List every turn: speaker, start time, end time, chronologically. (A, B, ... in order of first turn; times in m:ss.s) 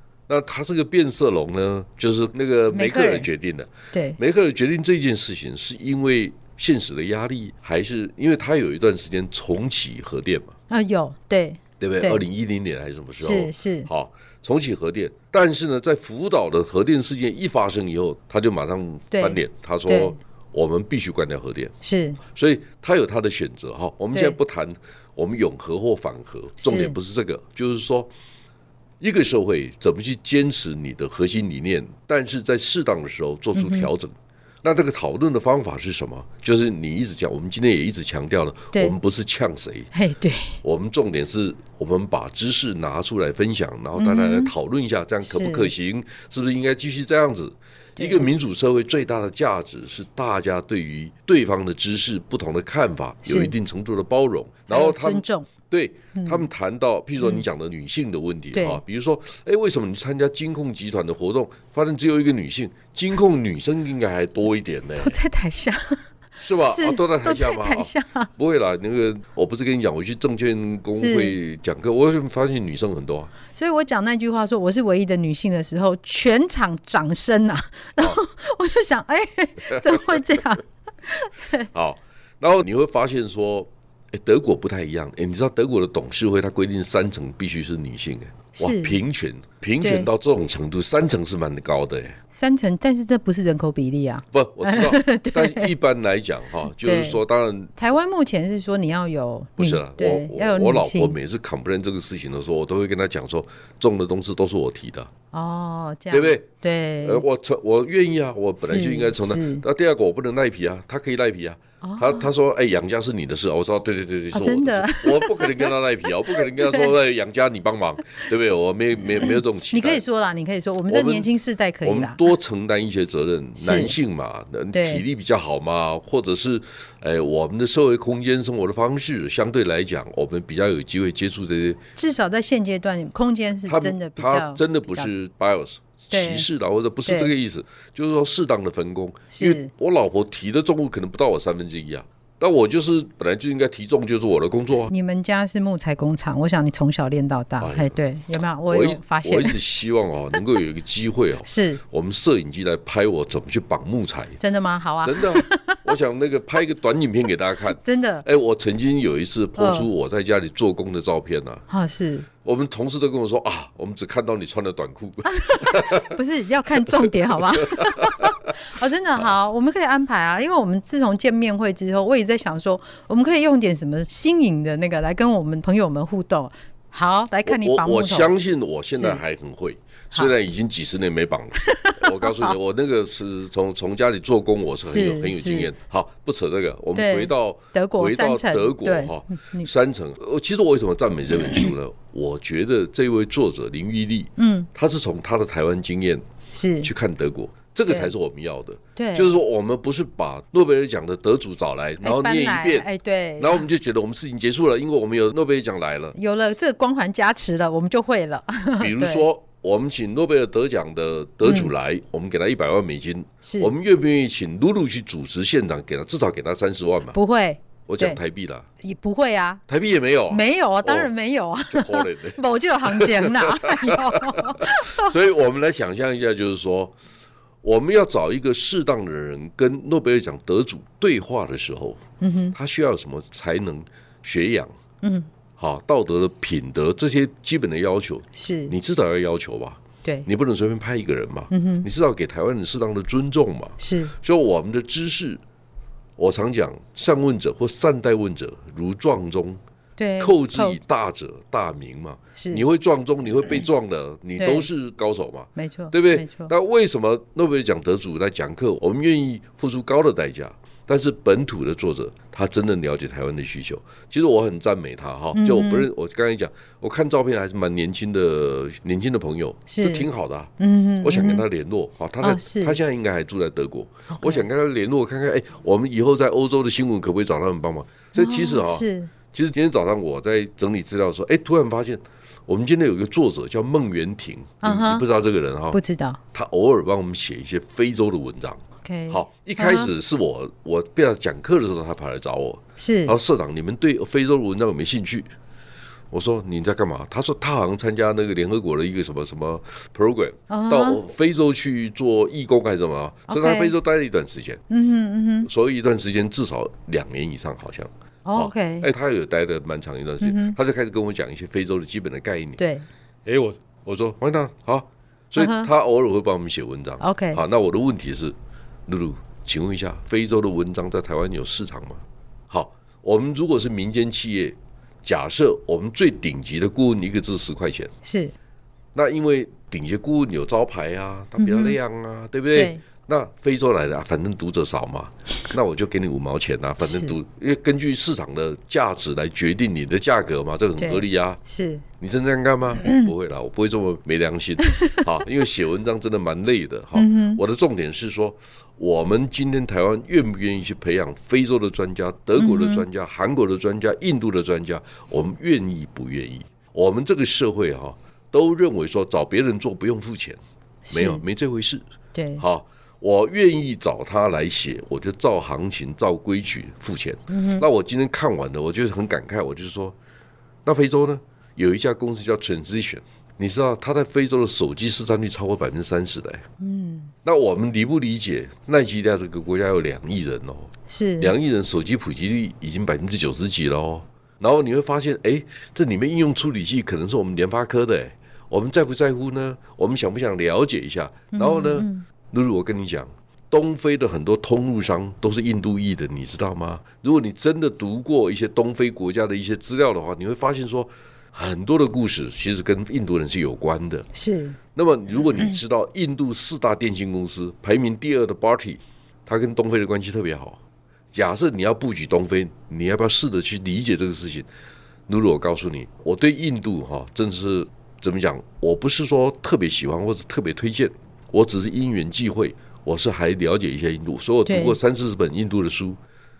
0:00.3-0:10.6 A
0:02.7-0:03.3 B
0:03.9-0:04.2 B
0:10.7-0:12.2 B
0:11.8-0:28.1 A
0:13.2-0:13.9 B
0:19.1-0:20.2 B
0:21.8-0:22.2 B
0:26.6-0:27.0 B
0:29.0-0:39.9 A
0:33.5-0:33.9 B
0:39.9-0:40.6 B
0:40.6-1:05.2 A
0:44.0-0:44.5 B
0:45.2-0:45.7 B
0:48.0-0:48.2 B
0:53.2-0:53.5 B
0:54.7-0:55.5 B
0:56.1-0:56.4 B
0:58.5-0:58.8 B
1:05.0-1:06.0 B
1:06.4-1:13.3 A
1:06.6-1:08.3 B
1:11.0-1:11.3 B
1:13.5-1:21.7 B
1:19.7-1:20.2 A
1:21.7-1:32.2 A
1:28.5-1:29.0 B
1:29.8-1:30.1 B
1:32.3-1:35.7 B
1:34.3-1:37.7 A
1:36.7-1:37.2 B
1:37.8-1:41.2 B
1:39.6-1:45.1 A
1:45.3-1:47.2 B
1:46.1-1:46.4 A
1:47.0-2:00.0 A
1:48.6-1:49.6 B
1:51.8-1:52.3 B
1:54.3-1:55.7 B
1:56.3-1:56.9 B
1:59.2-2:02.3 B
2:00.9-2:01.3 A
2:01.8-2:11.8 A
2:03.6-2:04.0 B
2:04.7-2:05.0 B
2:12.0-2:15.1 B
2:13.6-2:24.9 A
2:16.1-2:16.5 B
2:17.0-2:17.3 B
2:19.3-2:19.7 B
2:24.9-2:29.6 B
2:27.6-2:28.0 A
2:28.7-2:34.4 A
2:31.4-2:31.8 B
2:34.4-2:35.9 B
2:35.0-2:41.6 A
2:37.8-2:38.2 B
2:39.6-2:39.9 B
2:41.7-2:42.3 B
2:42.4-2:46.2 A
2:45.2-2:58.3 B
2:46.8-2:48.5 A
2:57.4-3:16.3 A
2:58.9-2:59.2 B
3:01.6-3:02.5 B
3:04.8-3:05.7 B
3:06.9-3:09.7 B
3:14.4-3:14.7 B
3:16.5-3:16.9 B
3:16.8-3:22.9 A
3:17.9-3:18.1 B
3:19.0-3:19.3 B
3:22.0-3:23.6 B
3:23.4-3:26.1 A
3:26.1-3:29.2 B
3:28.8-3:37.2 A
3:31.4-3:31.7 B
3:33.4-3:33.7 B
3:37.1-3:38.2 B
3:37.9-3:38.7 A
3:38.8-3:39.6 B
3:39.7-3:41.1 A
3:40.3-3:45.1 B
3:41.7-3:46.9 A
3:47.6-3:52.0 A
3:52.2-3:52.5 B
3:52.5-3:54.7 A
3:55.0-3:55.3 B
3:55.6-4:05.4 A
3:58.3-3:58.7 B
4:01.5-4:01.9 B
4:03.8-4:04.1 B
4:06.2-4:09.6 A
4:10.0-4:10.8 B
4:10.2-4:45.8 A
4:12.4-4:12.6 B
4:14.4-4:14.7 B
4:15.6-4:16.5 B
4:25.3-4:25.9 B
4:29.7-4:30.1 B
4:30.6-4:31.4 B
4:32.2-4:32.8 B
4:34.1-4:34.4 B
4:38.1-4:39.1 B
4:44.6-4:45.0 B
4:45.7-4:46.2 B
4:46.3-4:55.3 A
4:48.8-4:49.9 B
4:52.8-4:53.2 B
4:56.1-5:04.6 A
5:00.5-5:01.0 B
5:03.3-5:03.7 B
5:04.7-5:05.5 B
5:05.4-5:12.6 A
5:08.2-5:08.9 B
5:10.2-5:10.6 B
5:12.6-5:12.8 B
5:13.2-5:18.4 A
5:15.4-5:15.7 B
5:17.0-5:17.4 B
5:18.9-5:27.9 A
5:28.0-5:28.3 B
5:28.9-5:41.4 A
5:31.4-5:31.8 B
5:32.5-5:32.8 B
5:36.8-5:37.2 B
5:40.8-5:41.8 B
5:42.0-6:00.4 A
5:46.9-5:47.4 B
5:52.4-5:52.8 B
6:00.8-6:01.2 B
6:00.9-6:01.8 A
6:02.1-6:02.4 B
6:02.4-6:10.0 A
6:07.3-6:07.6 B
6:10.6-6:16.4 A
6:16.6-6:17.1 B
6:17.2-6:44.1 A
6:20.9-6:21.3 B
6:31.3-6:32.0 B
6:44.1-6:44.6 B
6:44.7-6:50.6 A
6:51.1-6:54.5 A
6:55.1-7:06.0 A
7:04.5-7:04.8 B